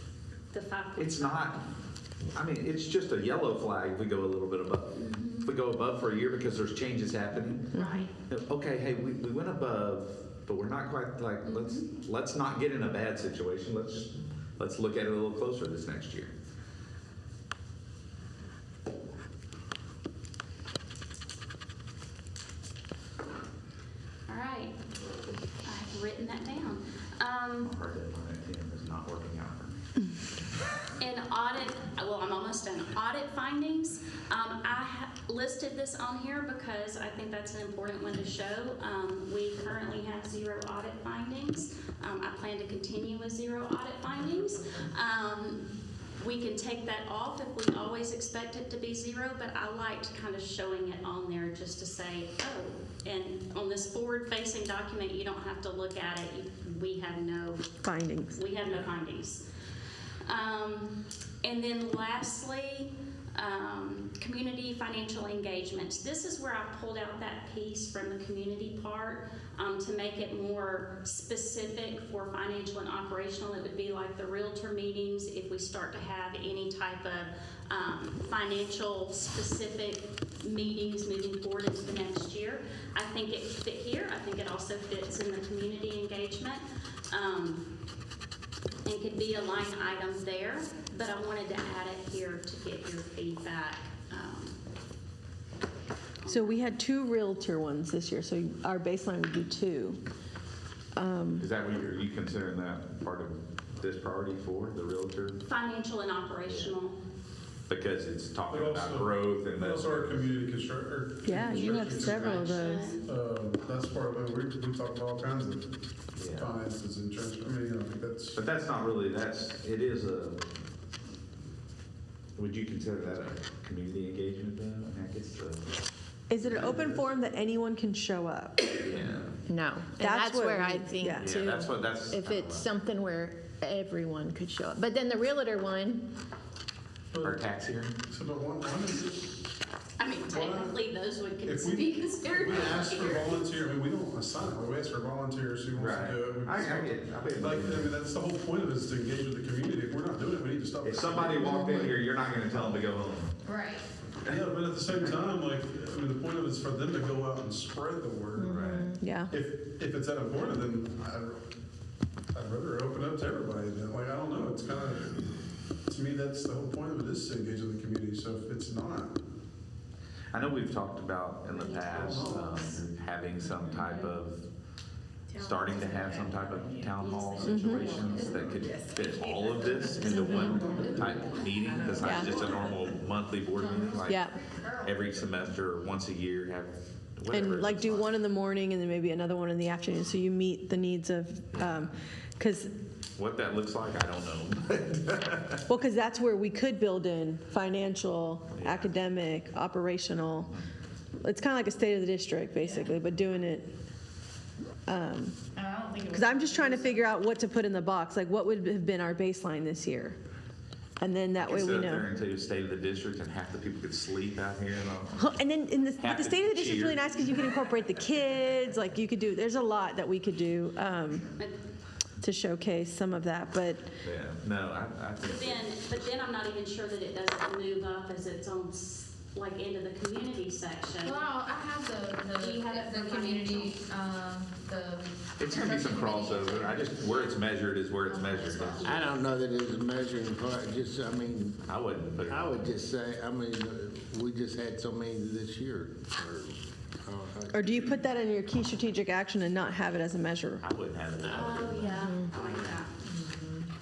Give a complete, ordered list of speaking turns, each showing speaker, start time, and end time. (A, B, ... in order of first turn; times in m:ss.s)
0:00.5-0:01.6 A
0:01.0-0:01.6 B
0:02.3-0:16.3 B
0:04.9-0:05.5 A
0:07.7-0:08.1 A
0:07.7-0:08.0 C
0:11.4-0:11.9 A
0:24.3-0:24.8 A
0:25.6-0:27.7 A
0:27.6-0:29.8 B
0:31.0-0:45.6 A
0:46.2-0:57.7 A
0:57.8-0:58.4 C
0:58.3-0:59.4 A
1:00.2-1:27.7 A
1:28.8-1:34.6 A
1:36.2-1:36.6 A
1:36.3-1:40.0 C
1:41.0-1:41.5 C
1:41.4-1:45.4 B
1:45.5-1:47.0 A
1:46.4-1:46.7 B
1:47.7-1:50.2 B
1:48.5-1:52.5 D
1:51.2-1:52.9 C
1:51.7-1:53.1 A
1:53.0-1:55.7 D
1:56.2-1:56.5 B
1:56.3-1:58.4 D
1:58.3-2:00.4 B
2:02.4-2:05.7 B
2:06.3-2:08.8 C
2:06.4-2:06.7 B
2:08.8-2:09.4 B
2:09.5-2:16.0 E
2:10.0-2:11.4 C
2:11.2-2:12.7 B
2:17.1-2:19.2 D
2:17.2-2:17.9 B
2:20.0-2:23.5 A
2:20.3-2:20.8 D
2:21.4-2:31.9 D
2:25.7-2:27.9 B
2:30.8-2:33.3 B
2:31.4-2:31.9 C
2:33.5-2:33.8 F
2:34.2-2:35.2 B
2:34.2-2:41.4 D
2:38.4-2:38.9 B
2:38.6-2:38.9 E
2:38.9-2:39.3 C
2:42.3-2:49.2 D
2:50.3-2:54.4 B
2:51.8-2:52.5 D
2:55.4-3:08.1 B
2:55.4-2:56.1 E
2:55.6-2:56.4 F
2:57.4-2:58.0 C
2:57.5-2:59.2 F
2:57.7-3:00.6 E
2:59.8-3:02.6 F
3:00.4-3:01.2 D
3:01.8-3:02.2 E
3:01.9-3:02.5 C
3:03.6-3:05.0 F
3:04.0-3:04.3 C
3:07.3-3:12.7 C
3:13.2-3:15.6 B
3:15.7-3:20.5 C
3:18.5-3:18.9 B
3:21.2-3:23.7 C
3:24.9-3:25.4 C
3:25.6-3:26.5 F
3:25.6-3:26.9 E
3:26.1-3:30.2 C
3:31.0-3:32.0 C
3:31.4-3:35.3 B
3:35.2-3:41.3 C
3:36.0-3:37.1 B
3:42.2-3:43.9 C
3:44.0-3:45.6 B
3:45.2-3:51.3 A
3:51.0-3:56.9 F
3:52.3-3:53.8 A
3:55.4-3:59.1 B
3:58.0-3:59.0 F
3:58.8-4:08.0 G
4:01.7-4:02.7 B
4:07.5-4:10.6 C
4:10.6-4:12.1 B
4:11.2-4:12.9 A
4:12.4-4:13.4 G